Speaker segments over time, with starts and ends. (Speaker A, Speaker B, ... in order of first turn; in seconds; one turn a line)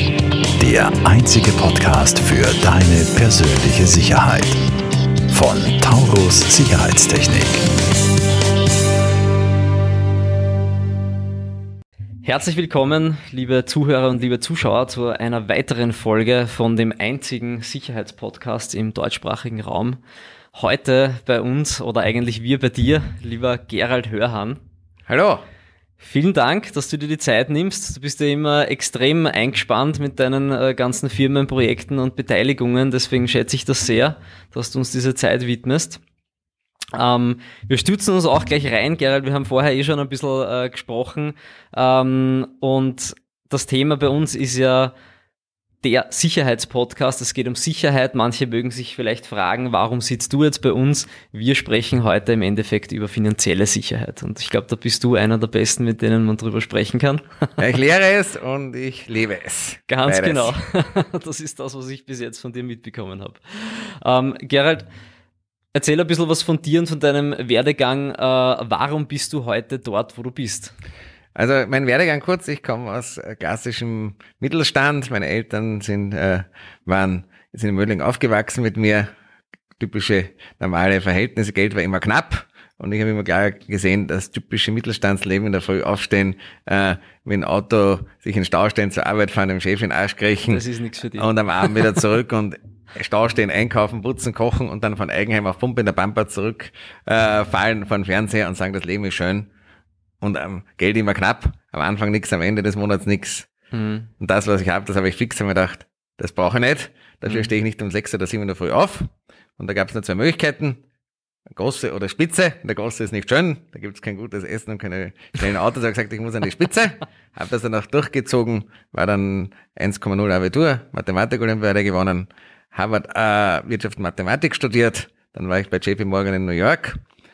Speaker A: 0.6-4.6
Speaker A: 5.3-7.7
Speaker B: 12.2-20.0
Speaker B: 20.5-24.6
Speaker C: 25.1-25.4
Speaker B: 26.0-36.0
Speaker B: 36.9-45.0
Speaker B: 45.8-57.6
Speaker C: 57.6-60.5
Speaker B: 59.9-64.9
Speaker B: 65.7-70.7
Speaker C: 71.3-79.1
Speaker C: 79.8-90.6
Speaker B: 90.5-91.9
Speaker C: 91.2-99.5
Speaker C: 100.2-103.5
Speaker B: 103.7-104.1
Speaker C: 104.2-110.8
Speaker C: 111.5-127.0